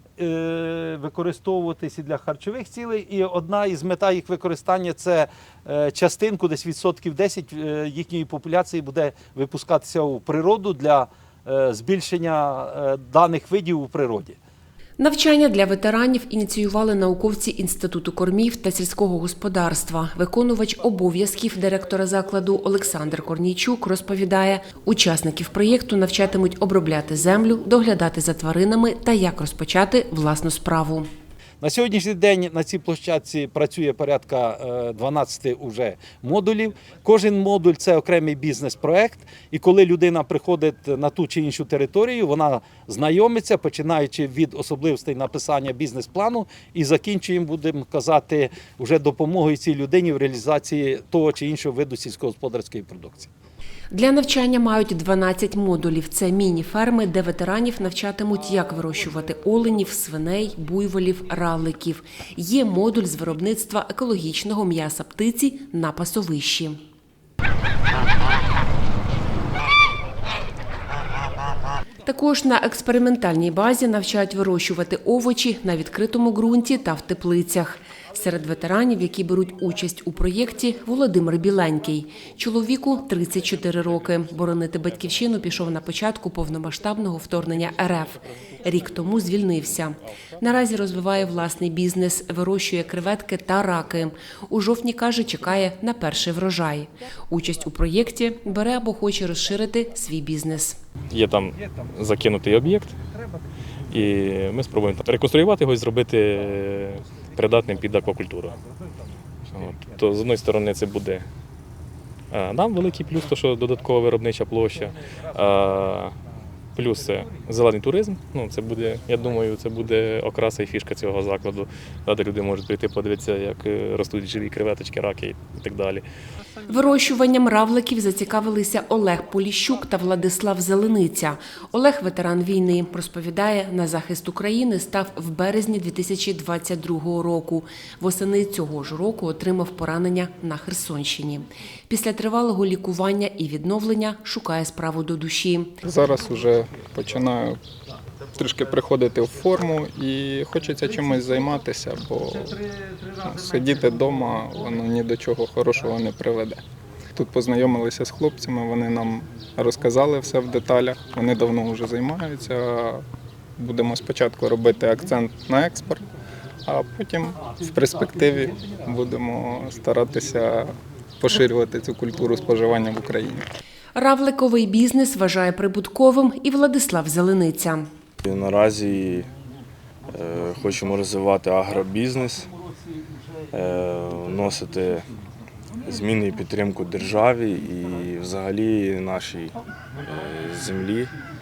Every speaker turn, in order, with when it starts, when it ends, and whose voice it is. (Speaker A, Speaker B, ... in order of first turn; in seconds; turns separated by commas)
Speaker A: 0.2-14.4, Speaker B: 15.0-31.1, Speaker A: 31.6-53.3, Speaker B: 53.9-66.8, Speaker B: 72.0-100.8, Speaker C: 84.2-85.4, Speaker C: 87.6-90.5, Speaker C: 101.1-103.0, Speaker A: 103.2-103.9, Speaker C: 103.9-108.6, Speaker A: 108.9-110.0, Speaker C: 109.5-111.3, Speaker C: 112.3-116.2, Speaker C: 116.8-126.0, Speaker B: 126.7-145.8, Speaker D: 145.8-147.6, Speaker D: 148.4-152.6, Speaker A: 152.3-154.5, Speaker D: 153.2-156.6, Speaker D: 157.2-163.1, Speaker D: 163.6-166.1, Speaker D: 166.7-173.5, Speaker A: 168.6-168.8, Speaker B: 173.9-177.9, Speaker E: 178.2-179.3, Speaker E: 180.1-182.5, Speaker E: 183.5-185.1, Speaker E: 185.8-191.1